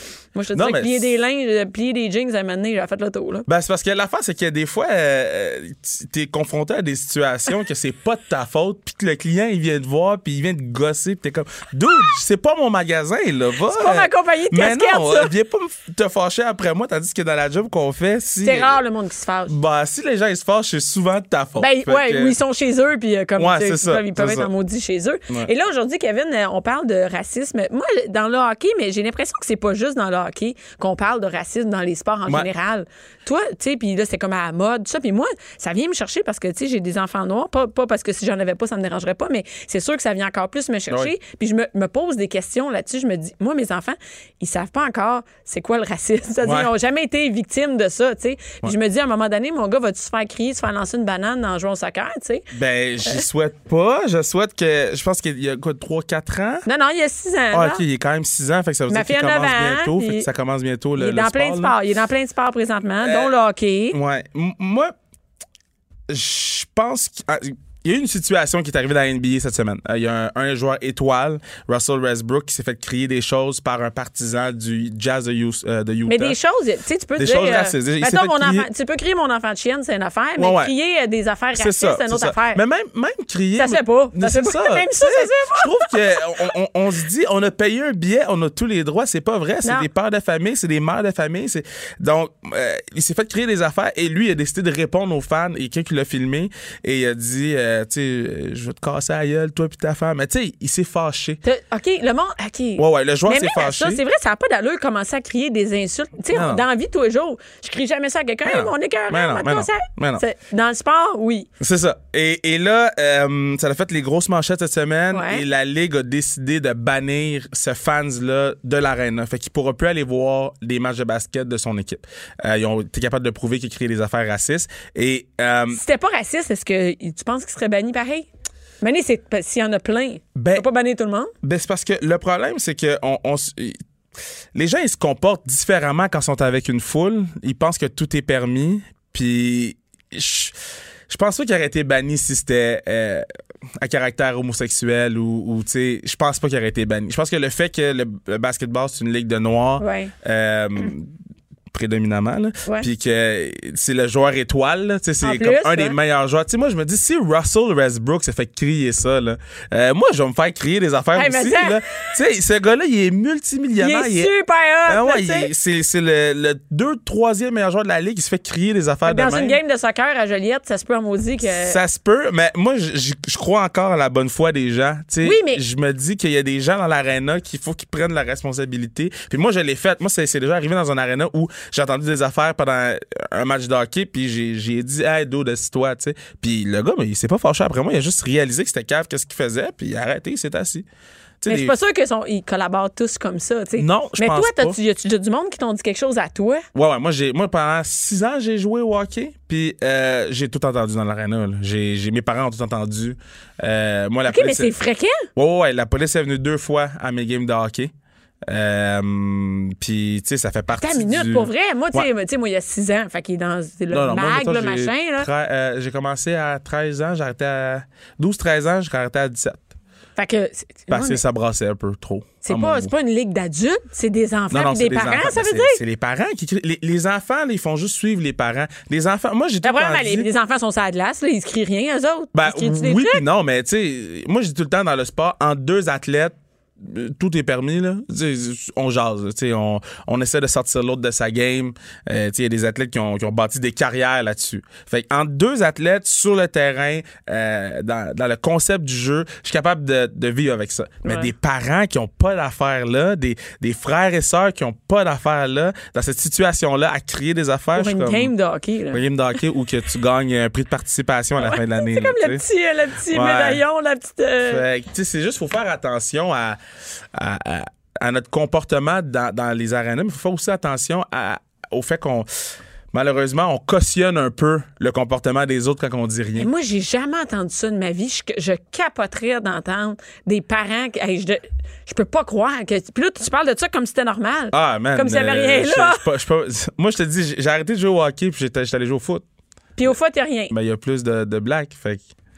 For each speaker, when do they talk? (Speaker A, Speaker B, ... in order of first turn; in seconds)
Speaker A: 0.3-3.5, 13.7-15.3, 18.4-19.5, 21.6-52.5, 56.6-57.8, 58.9-60.3, 61.0-64.0, 76.1-82.6, 83.5-86.4, 101.4-111.5, 115.1-115.4, 125.7-128.3, 128.8-131.3, 149.8-150.1, 155.2-155.9, 161.1-162.0, 163.8-165.5, 169.0-171.8, 175.2-175.6, 191.5-196.6, 204.3-205.3, 210.7-215.3, 220.2-221.2, 222.4-225.8, 229.6-233.2, 251.0-251.3, 257.7-259.0, 261.4-264.6, 276.4-286.0, 289.8-290.5
Speaker B: 0.5-1.1, 3.5-18.8, 19.5-22.4, 23.4-24.5, 46.4-46.7, 52.5-56.6, 57.5-61.8, 63.0-63.3, 63.9-64.9, 66.1-76.4, 77.2-78.7, 80.4-80.7, 81.5-101.4, 102.8-104.0, 106.3-106.6, 108.4-110.2, 111.6-125.8, 130.3-130.7, 131.4-133.8, 134.5-140.5, 141.1-143.2, 143.8-151.1, 151.7-164.3, 164.9-169.6, 171.5-190.8, 191.4-191.7, 193.8-194.8, 196.7-204.7, 205.3-207.9, 208.5-212.1, 213.9-219.7, 220.9-222.9, 224.5-230.3, 232.3-258.3, 258.9-262.4, 263.1-263.6, 264.4-266.6, 267.1-272.3, 272.9-276.5, 284.5-289.2, 290.5-292.1